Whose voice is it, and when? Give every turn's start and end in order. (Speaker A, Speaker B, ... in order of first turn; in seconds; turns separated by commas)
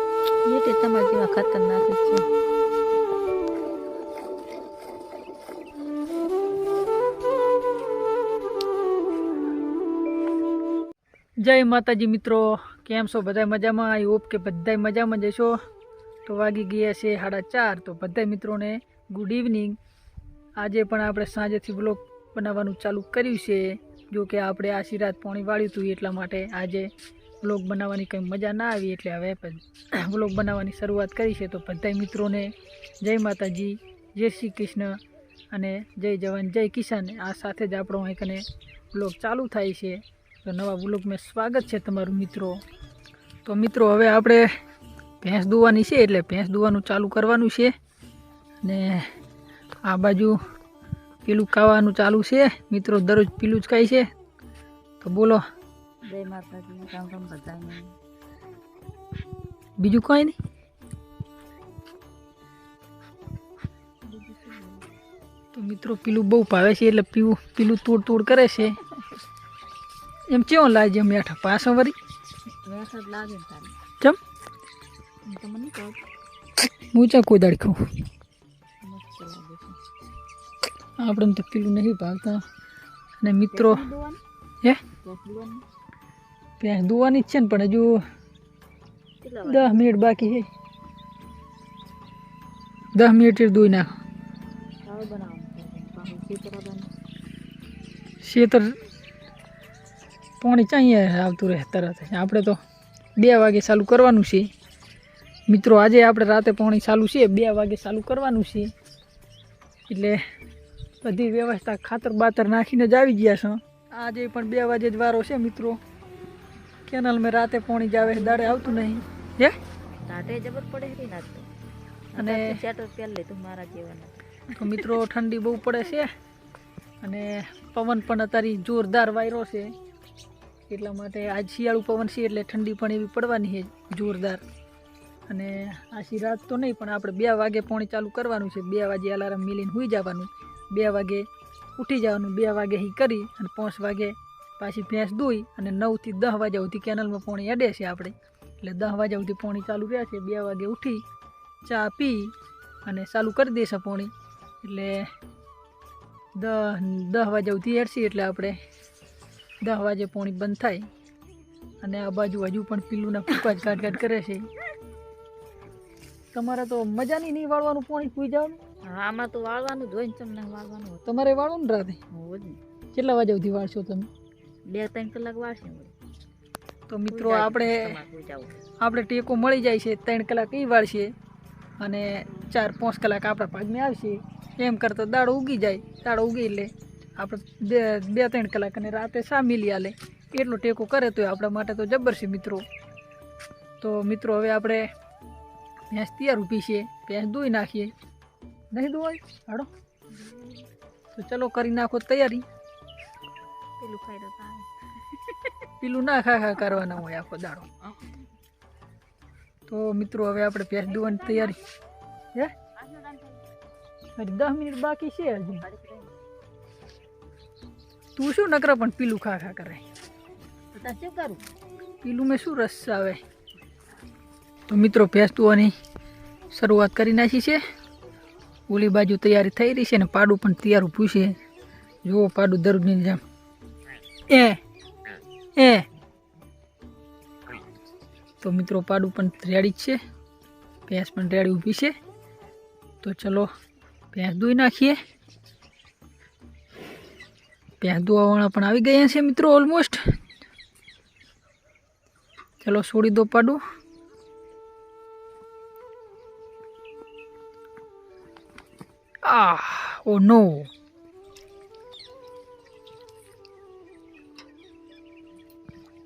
Speaker A: 0.5-2.2, Speaker B: 11.4-15.6, Speaker B: 16.3-19.8, Speaker B: 20.6-26.9, Speaker B: 27.4-35.0, Speaker B: 35.5-42.6, Speaker B: 43.5-44.5, Speaker B: 45.2-47.7, Speaker B: 48.6-49.1, Speaker B: 49.8-50.4, Speaker B: 51.2-54.1, Speaker B: 55.0-55.4, Speaker A: 56.1-58.0, Speaker B: 59.8-60.4, Speaker A: 64.0-64.9, Speaker B: 65.5-68.8, Speaker B: 70.3-72.0, Speaker A: 72.6-73.8, Speaker A: 75.3-76.0, Speaker B: 76.9-77.8, Speaker A: 78.8-79.8, Speaker B: 81.0-82.4, Speaker B: 83.2-83.9, Speaker A: 83.5-84.2, Speaker A: 85.0-85.6, Speaker B: 86.6-88.0, Speaker A: 89.2-89.8, Speaker B: 89.5-90.5, Speaker B: 93.0-93.9, Speaker A: 94.8-96.9, Speaker B: 98.2-98.7, Speaker B: 100.4-102.6, Speaker B: 103.2-104.5, Speaker B: 105.5-108.7, Speaker B: 109.9-110.2, Speaker B: 111.0-115.8, Speaker B: 116.9-119.5, Speaker A: 118.0-119.0, Speaker A: 120.0-121.5, Speaker A: 122.1-124.9, Speaker B: 122.2-122.6, Speaker B: 124.5-126.1, Speaker B: 127.0-129.7, Speaker B: 130.7-134.4, Speaker B: 135.3-141.2, Speaker B: 141.8-151.0, Speaker B: 151.7-152.3, Speaker B: 152.8-155.1, Speaker B: 156.4-158.6, Speaker B: 159.6-160.9, Speaker B: 161.8-164.5, Speaker B: 166.3-168.6, Speaker A: 168.8-171.0, Speaker B: 171.1-172.0, Speaker A: 172.1-172.6, Speaker B: 172.9-174.1, Speaker A: 174.7-175.9, Speaker B: 176.9-178.0, Speaker A: 177.1-178.6, Speaker B: 178.8-181.1, Speaker B: 181.8-192.6, Speaker B: 193.8-194.9, Speaker B: 195.9-197.9, Speaker B: 198.7-199.7, Speaker A: 200.2-200.6, Speaker B: 201.1-202.4, Speaker A: 203.8-204.7, Speaker B: 205.8-207.7, Speaker B: 209.7-211.6, Speaker A: 210.9-211.7, Speaker A: 212.8-213.4, Speaker B: 214.2-215.7, Speaker A: 215.6-216.2, Speaker B: 218.2-219.8, Speaker A: 220.7-221.4, Speaker B: 222.0-223.2, Speaker B: 224.7-225.7, Speaker B: 226.5-227.6, Speaker B: 228.7-231.4, Speaker B: 232.1-233.2, Speaker B: 234.3-234.6, Speaker B: 235.6-235.9, Speaker B: 238.4-240.0, Speaker B: 240.9-241.9, Speaker B: 243.0-243.5, Speaker B: 244.1-245.0, Speaker B: 247.8-250.0, Speaker B: 252.6-253.6, Speaker B: 259.2-260.7